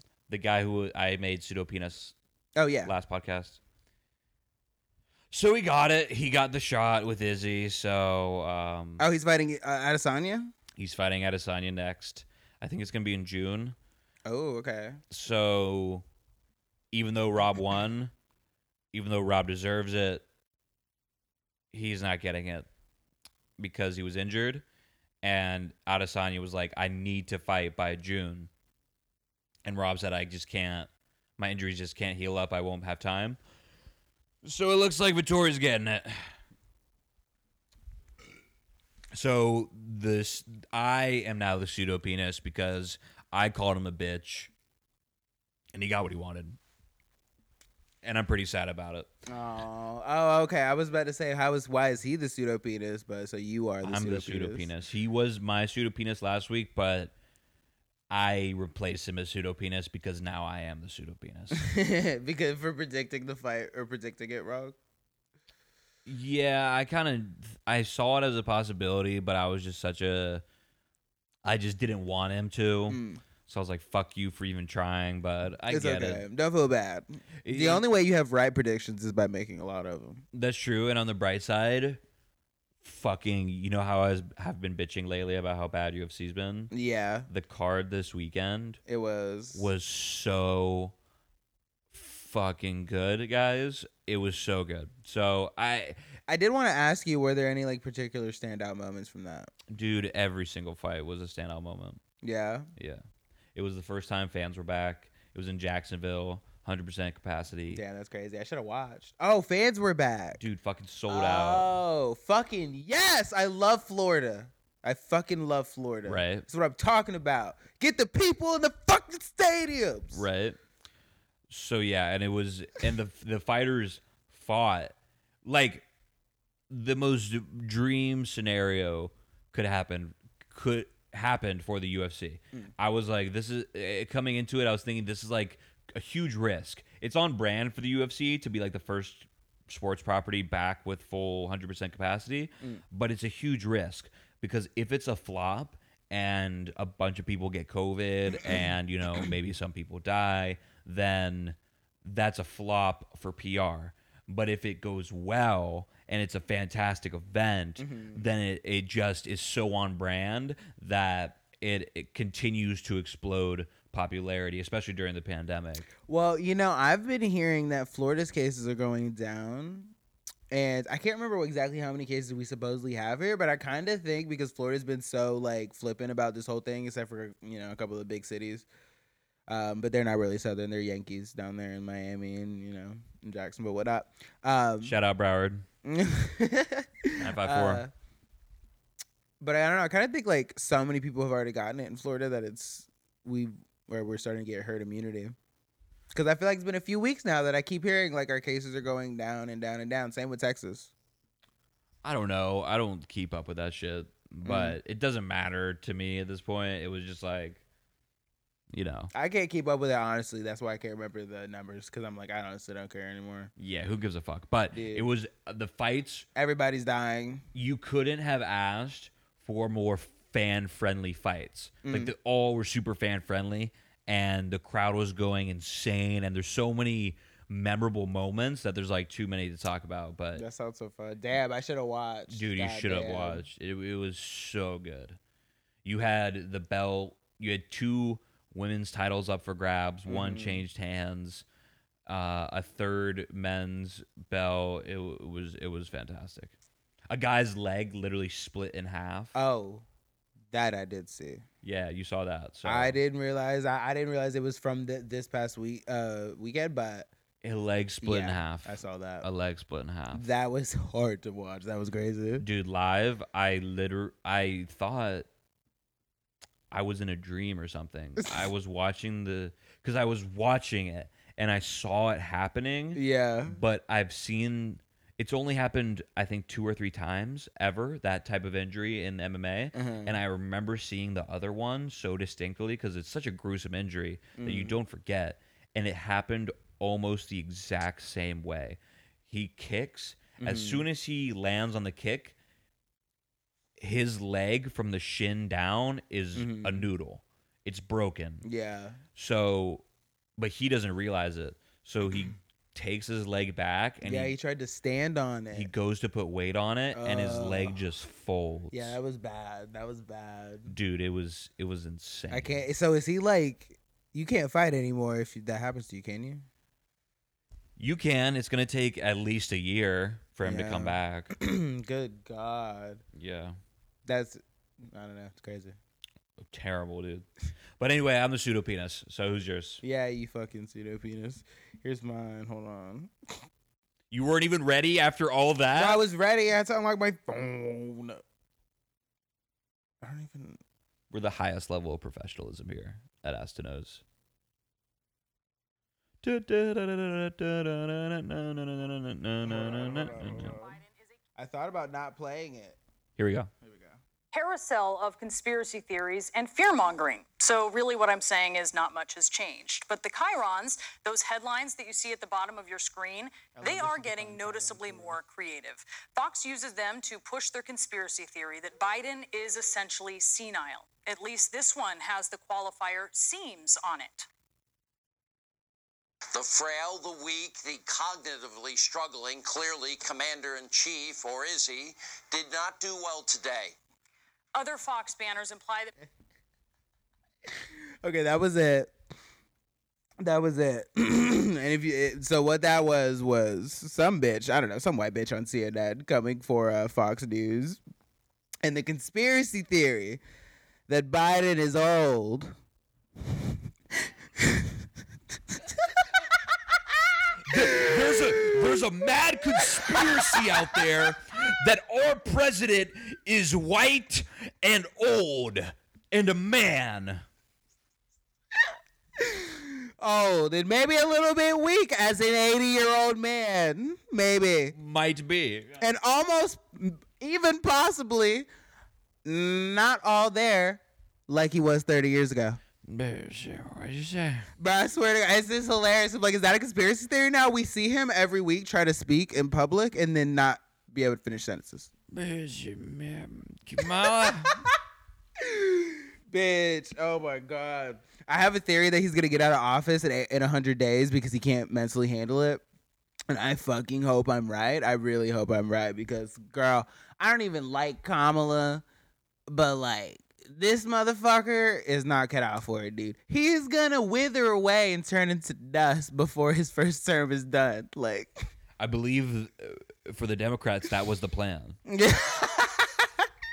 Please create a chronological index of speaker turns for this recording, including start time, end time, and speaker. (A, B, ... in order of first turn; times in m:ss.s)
0:00.3-0:02.2 A
0:02.6-0:02.9 B
0:02.9-0:03.6 A
0:05.3-0:09.1 A
0:09.0-0:10.5 B
0:10.8-0:13.8 A
0:14.3-0:15.0 B
0:15.1-0:16.0 A
0:16.9-0:18.1 A
0:18.9-0:20.2 A
0:21.7-0:22.7 A
0:23.6-0:24.6 A
0:25.2-0:28.5 A
0:29.6-0:33.4 A
0:34.4-0:36.3 A
0:39.1-0:44.5 A
0:45.7-0:46.6 A
0:48.0-0:49.1 A
0:49.3-0:54.7 B
0:53.8-0:57.1 A
0:58.1-1:01.6 A
1:01.5-1:04.8 B
1:06.1-1:10.4 A
1:11.4-1:16.2 A
1:12.9-1:13.2 B
1:15.7-1:20.2 B
1:17.4-1:17.8 A
1:20.3-1:22.0 A
1:22.8-1:26.7 A
1:26.7-1:27.3 B
1:27.3-1:28.8 A
1:28.9-1:29.7 B
1:29.5-1:31.0 A
1:31.9-1:36.0 A
1:36.3-1:39.5 B
1:39.7-1:42.0 A
1:42.2-1:42.7 B
1:42.8-1:47.8 A
1:47.7-1:50.4 B
1:50.4-1:51.8 A
1:51.1-2:00.2 B
1:56.1-1:56.5 A
2:00.1-2:00.6 A
2:01.5-2:04.9 A
2:05.4-2:05.8 A
2:06.7-2:45.9 A
2:37.8-2:38.2 B
2:46.1-2:49.9 B
2:50.5-2:58.7 B
2:59.5-3:05.0 B
3:04.8-3:05.7 A
3:05.8-3:07.9 B
3:07.2-3:07.8 A
3:09.4-3:15.4 B
3:16.1-3:20.9 B
3:22.0-3:27.6 A
3:24.4-3:24.8 B
3:28.7-3:29.1 A
3:29.1-3:33.5 B
3:33.6-3:36.3 A
3:34.7-3:35.1 B
3:36.4-3:37.5 B
3:37.6-3:50.4 A
3:41.8-3:42.1 B
3:50.4-3:53.4 B
3:52.3-3:55.2 A
3:55.8-4:01.4 A
4:00.1-4:00.6 B
4:02.1-4:06.5 A
4:07.1-4:09.4 A
4:09.4-4:09.8 B
4:10.5-4:11.4 B
4:11.6-4:13.0 A
4:12.6-4:17.1 B
4:17.4-4:20.3 A
4:18.0-4:19.3 B
4:20.1-4:22.4 B
4:22.4-4:25.3 A
4:26.7-4:52.4 A
4:33.0-4:33.6 B
4:39.7-4:40.2 B
4:44.4-4:44.8 B
4:50.4-4:50.8 B
4:53.8-4:58.4 A
4:56.4-4:56.9 B
4:58.4-4:59.0 B
4:59.2-4:59.8 A
5:00.4-5:04.4 A
5:04.0-5:05.7 B
5:05.5-5:09.0 A
5:06.9-5:07.8 B
5:08.7-5:10.7 B
5:10.7-5:12.6 A
5:12.3-5:16.4 B
5:17.8-5:21.3 A
5:20.4-5:23.0 B
5:23.1-5:23.6 A
5:24.1-5:25.8 B
5:26.4-5:27.3 A
5:27.8-5:29.8 A
5:29.8-5:33.1 B
5:34.1-5:36.0 A
5:35.8-5:38.2 B
5:40.0-5:40.6 B
5:41.1-5:44.0 A
5:46.2-5:50.5 A
5:49.4-5:50.8 B
5:50.4-5:50.9 C
5:51.4-5:52.8 B
5:53.2-5:53.5 A
5:53.6-5:54.0 B
5:54.3-6:14.3 C
6:03.6-6:05.2 B
6:16.3-6:23.8 D
6:24.6-6:25.9 C
6:28.0-6:28.9 B
6:30.2-6:37.8 B
6:38.6-6:40.2 B
6:40.9-6:42.6 B
6:44.4-6:44.7 B
6:45.5-6:46.0 B
6:47.5-6:57.2 A
6:47.5-6:48.5 B
6:49.6-6:50.8 B
6:59.2-7:04.8 B
7:04.8-7:05.8 A
7:05.8-7:08.5 B
7:09.2-7:12.6 B
7:12.8-7:14.5 A
7:14.6-7:21.9 B
7:22.1-7:24.7 A
7:23.9-7:24.7 B
7:25.4-7:32.6 B
7:33.3-7:38.8 B
7:39.5-7:48.4 B
7:48.8-7:51.8 A
7:51.9-7:53.1 B